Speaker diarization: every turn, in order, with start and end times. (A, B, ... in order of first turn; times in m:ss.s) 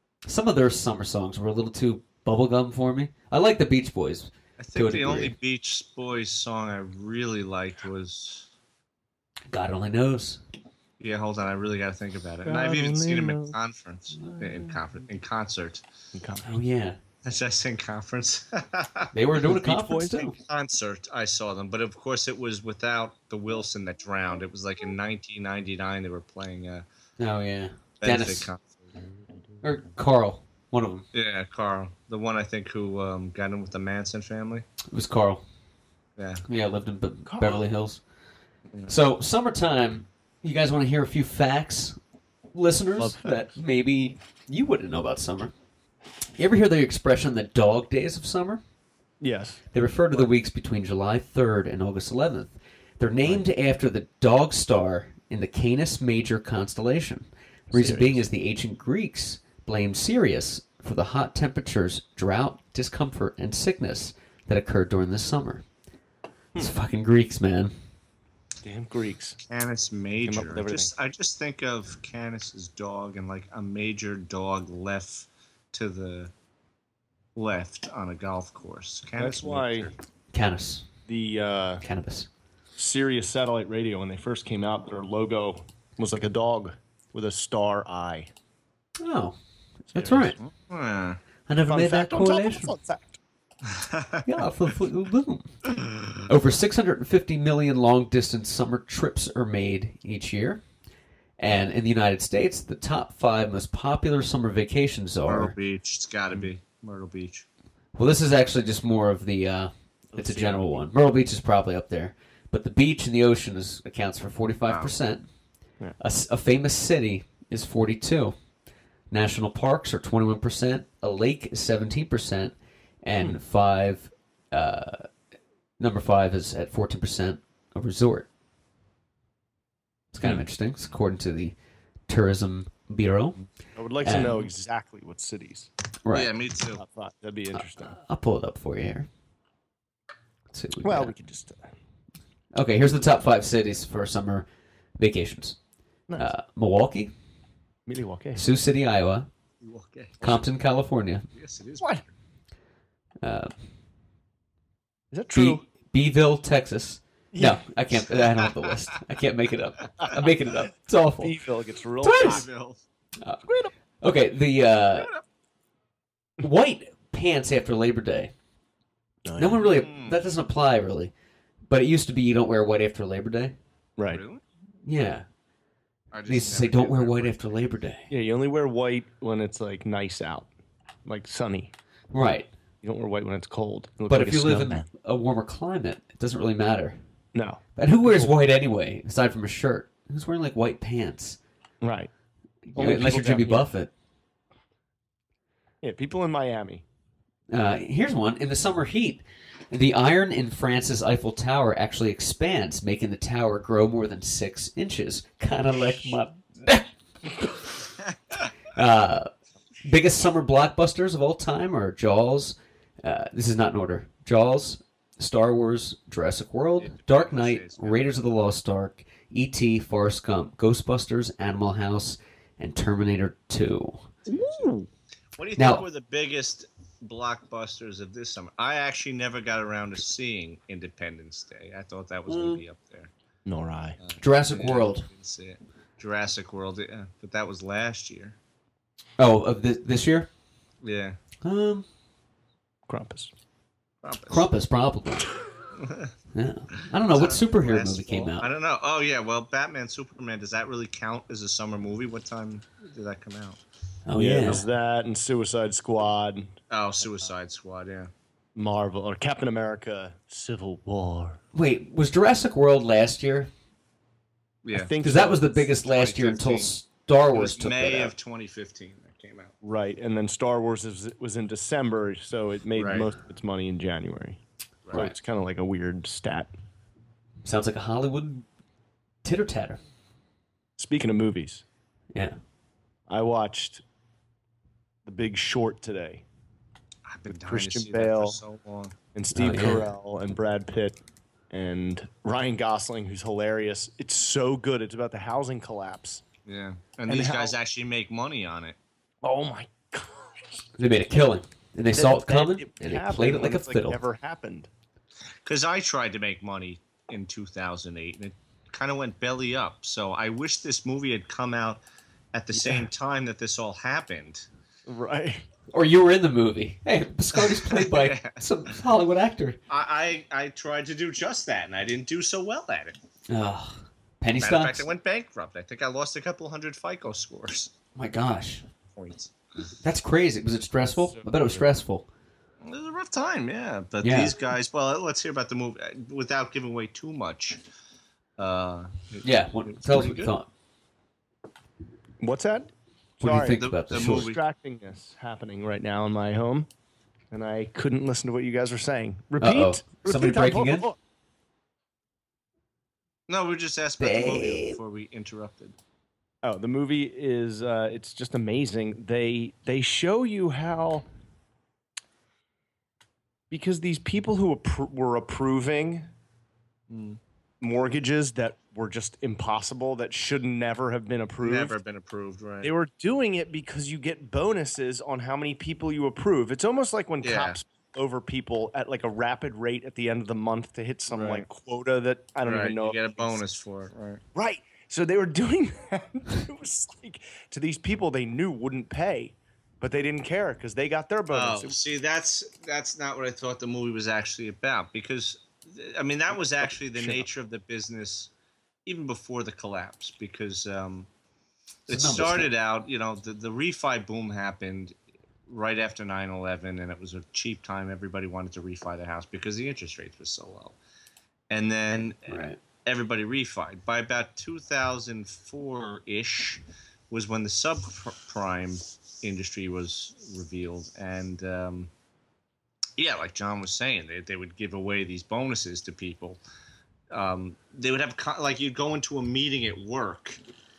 0:00.3-0:05.3 A
0:04.6-0:08.5 B
0:09.5-0:10.4 A
0:11.0-0:15.8 B
0:12.4-0:13.6 C
0:14.2-0:14.8 A
0:16.1-0:16.5 C
0:16.4-0:17.0 A
0:17.2-0:19.1 B
0:19.1-0:20.4 A
0:19.4-0:20.2 C
0:20.2-0:26.8 B
0:27.2-0:28.5 A
0:28.0-0:28.8 B
0:29.6-0:31.1 A
0:31.1-0:34.7 B
0:34.9-0:35.4 A
0:36.2-0:36.4 B
0:36.5-0:38.0 A
0:37.3-0:37.6 C
0:38.9-0:42.0 A
0:42.5-0:45.5 A
0:43.0-0:43.6 C
0:46.4-0:48.6 A
0:49.2-0:49.6 C
0:49.7-1:05.6 A
0:57.7-0:58.2 C
1:06.6-1:07.7 A
1:08.6-1:09.4 C
1:09.5-1:16.3 B
1:10.2-1:10.9 C
1:17.4-1:19.9 B
1:19.2-1:19.9 C
1:20.3-1:20.9 A
1:21.1-1:21.8 C
1:21.8-1:22.3 A
1:22.8-1:28.3 C
1:29.0-1:29.4 A
1:29.9-1:30.4 A
1:30.0-1:30.4 C
1:30.4-1:31.2 B
1:31.5-1:32.7 A
1:31.7-1:33.2 C
1:33.7-1:34.2 B
1:34.2-1:35.6 A
1:36.3-1:40.6 A
1:41.4-1:45.5 A
1:45.3-1:47.5 B
1:48.0-1:55.2 A
1:50.1-1:50.8 C
1:54.7-1:55.0 B
1:56.0-1:58.4 A
1:59.1-2:05.1 A
2:05.8-2:08.3 A
2:10.1-2:11.6 A
2:12.1-2:13.4 A
2:13.8-2:15.7 C
2:14.0-2:14.5 A
2:16.1-2:16.8 B
2:16.8-2:18.0 C
2:17.5-2:19.1 A
2:20.5-2:21.1 A
2:20.8-2:21.7 C
2:22.6-2:24.5 A
2:25.0-2:25.6 A
2:26.2-2:27.1 A
2:27.9-2:28.4 C
2:28.4-2:29.3 A
2:29.6-2:30.4 B
2:30.2-2:31.3 A
2:31.3-2:32.0 B
2:33.2-2:33.5 A
2:35.1-2:35.6 C
2:35.3-2:41.4 A
2:37.3-2:37.6 C
2:41.2-2:42.5 C
2:42.0-2:42.4 A
2:42.2-2:42.8 B
2:43.5-2:43.7 C
2:44.0-2:45.1 A
2:46.4-2:48.3 A
2:49.2-2:49.7 C
2:49.4-2:51.1 A
2:49.6-2:50.2 B
2:51.7-2:53.6 A
2:54.0-2:54.2 C
2:54.1-2:54.4 B
2:54.9-2:55.3 A
2:56.1-2:57.5 B
2:56.3-2:58.1 A
2:58.1-3:00.5 C
3:01.0-3:01.7 C
3:02.1-3:02.5 A
3:02.8-3:04.9 C
3:04.1-3:07.0 A
3:07.3-3:08.3 C
3:07.8-3:11.4 A
3:11.8-3:12.1 C
3:12.7-3:13.9 A
3:12.8-3:13.7 C
3:15.8-3:16.8 C
3:17.5-3:27.6 A
3:25.7-3:26.2 C
3:28.7-3:29.3 A
3:29.8-3:44.0 A
3:36.8-3:38.4 B
3:44.3-3:44.9 C
3:44.3-3:44.7 B
3:45.4-3:53.1 B
3:45.6-3:45.8 A
3:52.3-3:52.6 A
3:53.4-3:54.0 C
3:54.0-3:58.4 B
3:54.2-3:55.1 A
3:59.2-4:00.3 A
4:00.8-4:01.2 B
4:01.4-4:01.9 A
4:02.9-4:03.3 C
4:04.0-4:04.5 B
4:04.3-4:05.3 A
4:05.8-4:06.1 B
4:06.3-4:08.5 A
4:07.1-4:13.6 B
4:14.1-4:14.6 A
4:14.2-4:16.5 C
4:16.7-4:18.1 B
4:18.6-4:21.4 C
4:21.5-4:23.5 A
4:24.6-4:25.0 B
4:24.7-4:25.6 C
4:25.0-4:28.1 A
4:25.8-4:26.7 B
4:27.3-4:29.5 B
4:29.6-4:34.4 C
4:32.8-4:33.1 B
4:34.9-4:35.1 B
4:34.9-4:36.5 C
4:37.4-4:38.5 A
4:39.2-4:39.8 A
4:40.8-4:41.6 C
4:43.1-4:43.8 C
4:45.0-4:46.2 C
4:47.1-4:49.0 B
4:47.3-4:48.4 C
4:49.1-4:51.0 C
4:49.3-4:50.0 A
4:51.5-4:56.2 C
4:56.5-4:58.8 B
4:57.1-4:57.6 C
4:59.2-5:00.6 C
5:00.8-5:04.0 A
5:02.0-5:04.7 C
5:05.4-5:11.8 B
5:12.3-5:14.5 B
5:12.6-5:12.9 C
5:14.9-5:15.4 C
5:15.7-5:19.6 A
5:17.4-5:18.4 B
5:19.7-5:23.0 B
5:23.3-5:24.9 A
5:24.4-5:27.7 B
5:28.0-5:28.6 A
5:29.0-5:29.3 B
5:29.8-5:32.1 A
5:30.9-5:31.7 C
5:32.6-5:37.6 B
5:34.0-5:34.3 A
5:38.4-5:40.3 B
5:39.2-5:40.5 A
5:42.2-5:46.7 C
5:43.2-5:44.3 A
5:43.5-5:44.4 B
5:47.3-5:51.0 C
5:49.4-5:50.9 A
5:53.3-5:55.8 B
5:54.0-5:54.8 A
5:56.4-6:01.0 C
6:03.5-6:06.1 C
6:06.9-6:07.2 B
6:07.6-6:11.8 C
6:11.4-6:12.7 B
6:12.6-6:23.4 C
6:17.2-6:17.6 B
6:21.1-6:21.5 B
6:22.4-6:24.2 B
6:24.4-6:31.8 C
6:31.3-6:38.3 B
6:36.6-6:37.3 C
6:38.9-6:41.1 B
6:41.9-6:45.0 B
6:41.9-6:42.5 A
6:45.5-6:50.8 B
6:51.5-7:01.9 B
6:52.3-6:52.6 A
7:03.0-7:06.4 B
7:07.1-7:10.4 B